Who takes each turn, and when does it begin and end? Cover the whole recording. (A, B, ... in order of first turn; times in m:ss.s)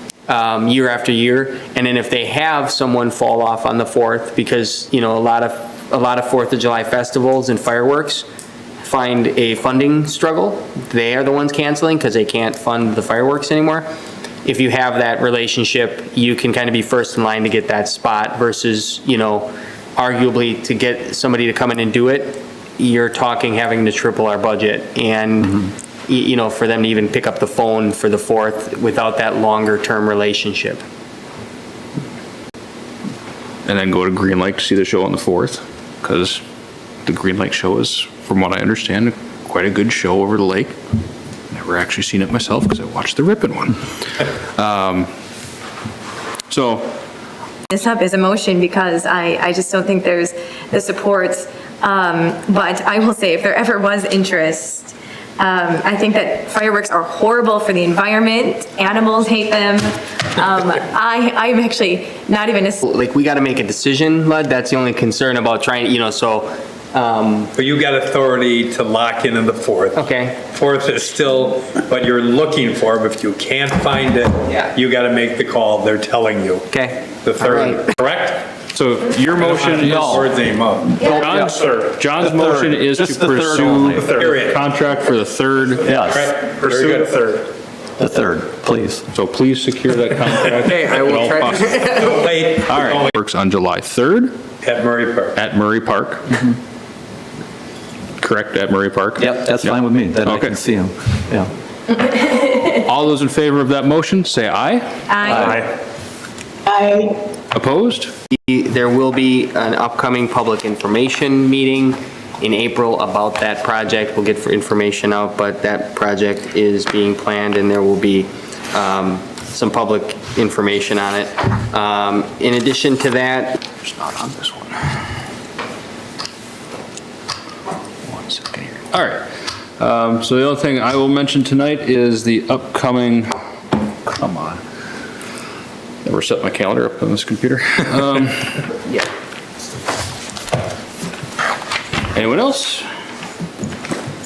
0:00.3-0:08.3 A
0:08.8-0:13.9 A
0:14.4-0:30.8 A
0:33.6-0:36.4 B
0:37.0-0:40.8 B
0:41.5-0:45.1 B
0:46.5-0:46.9 B
0:47.7-1:02.8 C
1:02.8-1:07.5 A
1:07.5-1:16.7 D
1:10.0-1:10.4 A
1:16.7-1:17.9 A
1:17.2-1:18.6 D
1:18.7-1:20.1 B
1:19.4-1:21.0 D
1:19.6-1:20.2 E
1:21.0-1:21.6 E
1:21.0-1:25.9 B
1:22.2-1:24.2 E
1:23.9-1:24.6 D
1:25.8-1:26.4 E
1:25.9-1:27.4 D
1:26.7-1:27.4 B
1:28.0-1:29.0 E
1:29.1-1:31.8 B
1:30.7-1:31.8 A
1:31.1-1:33.1 D
1:32.7-1:34.4 B
1:34.6-1:35.4 D
1:35.4-1:36.5 B
1:38.2-1:40.6 B
1:39.2-1:41.5 E
1:42.6-1:45.0 B
1:45.1-1:45.6 C
1:45.2-1:45.7 E
1:46.7-1:47.2 C
1:47.5-1:48.1 B
1:48.3-2:03.6 A
2:03.8-2:05.0 B
2:08.1-2:09.2 B
2:09.8-2:13.3 B
2:14.1-2:14.6 B
2:16.0-2:19.0 B
2:22.1-2:22.8 B